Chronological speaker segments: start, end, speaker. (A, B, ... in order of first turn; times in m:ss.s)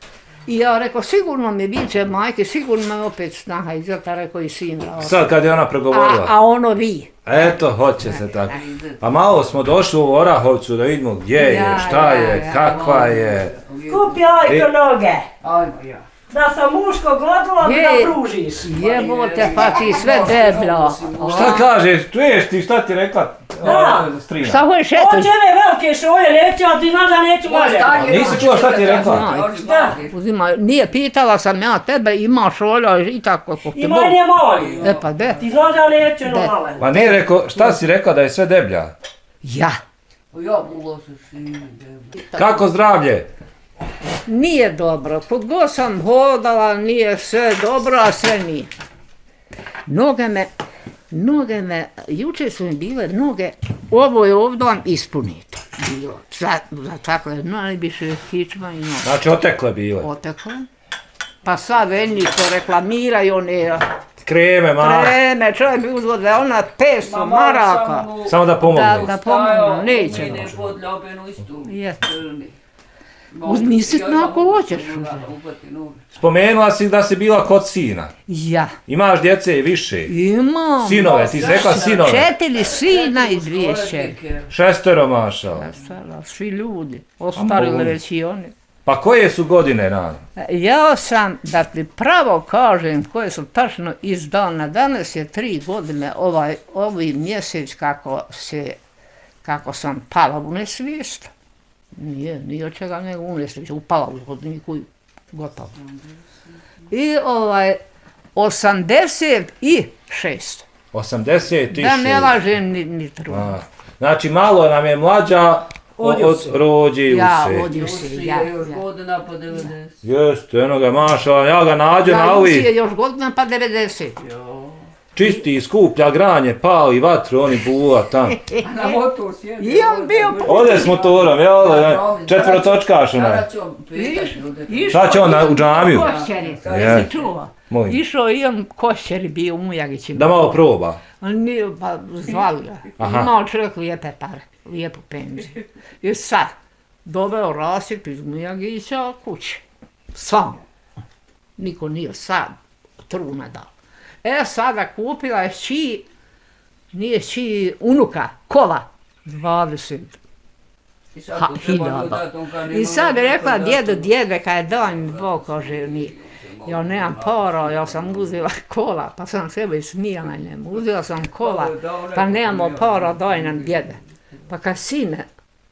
0:00.5-0:05.3 A
0:05.0-0:06.3 B
0:05.9-0:08.6 A
0:07.3-0:13.5 B
0:08.5-0:09.0 C
0:11.4-0:13.2 A
0:12.5-0:14.4 C
0:13.9-0:15.3 D
0:15.4-0:16.0 C
0:16.3-0:18.7 D
0:17.6-0:21.7 A
0:18.8-0:21.7 C
0:21.3-0:24.7 B
0:23.6-0:24.1 D
0:24.4-0:25.3 A
0:24.9-0:28.4 D
0:27.5-0:30.1 C
0:28.0-0:29.3 B
0:28.1-0:34.2 A
0:29.6-0:30.0 D
0:33.7-0:37.2 D
0:34.5-0:35.0 C
0:34.8-0:35.4 A
0:36.2-0:37.8 A
0:36.8-0:38.9 B
0:39.4-0:39.8 A
0:40.3-0:42.1 C
0:42.3-0:42.6 A
0:42.4-0:43.3 B
0:44.3-0:48.7 A
0:49.9-0:50.5 A
0:51.1-0:59.2 A
0:59.0-1:00.1 B
1:00.0-1:00.7 A
1:01.4-1:03.9 A
1:04.2-1:05.2 B
1:04.8-1:08.1 A
1:07.0-1:12.5 C
1:08.2-1:09.1 B
1:08.6-1:10.6 A
1:11.7-1:12.0 A
1:13.3-1:16.0 C
1:13.4-1:15.2 A
1:16.2-1:18.1 B
1:18.3-1:18.8 A
1:18.9-1:20.1 B
1:20.1-1:24.2 A
1:20.8-1:22.3 B
1:21.0-1:24.5 C
1:24.5-1:25.7 B
1:25.6-1:28.5 A
1:27.4-1:28.0 B
1:28.8-1:30.2 B
1:30.4-1:38.8 A
1:39.4-1:41.3 A
1:42.0-1:45.7 A
1:46.9-1:47.8 A
1:48.4-1:50.7 A
1:50.9-1:52.4 B
1:51.7-1:53.6 A
1:53.3-1:57.7 B
1:56.0-1:56.6 D
1:57.1-1:58.8 A
1:57.7-2:00.0 C
2:00.0-2:02.7 B
2:02.0-2:04.2 A
2:04.3-2:04.8 C
2:05.2-2:08.4 B
2:08.4-2:09.0 A
2:08.6-2:17.3 C
2:09.6-2:11.1 A
2:10.4-2:13.4 B
2:14.0-2:20.6 A
2:14.9-2:16.1 B
2:16.7-2:17.1 B
2:17.7-2:18.0 B
2:20.1-2:21.0 B
2:21.2-2:26.5 A
2:23.0-2:23.3 B
2:27.0-2:29.6 A
2:30.1-2:30.6 A
2:31.6-2:33.7 A
2:34.2-2:36.1 A
2:36.9-2:40.2 A
2:41.1-2:44.1 C
2:41.4-2:46.1 A
2:44.8-2:48.3 C
2:46.6-2:54.0 A
2:51.4-2:53.9 C
2:54.5-2:55.3 A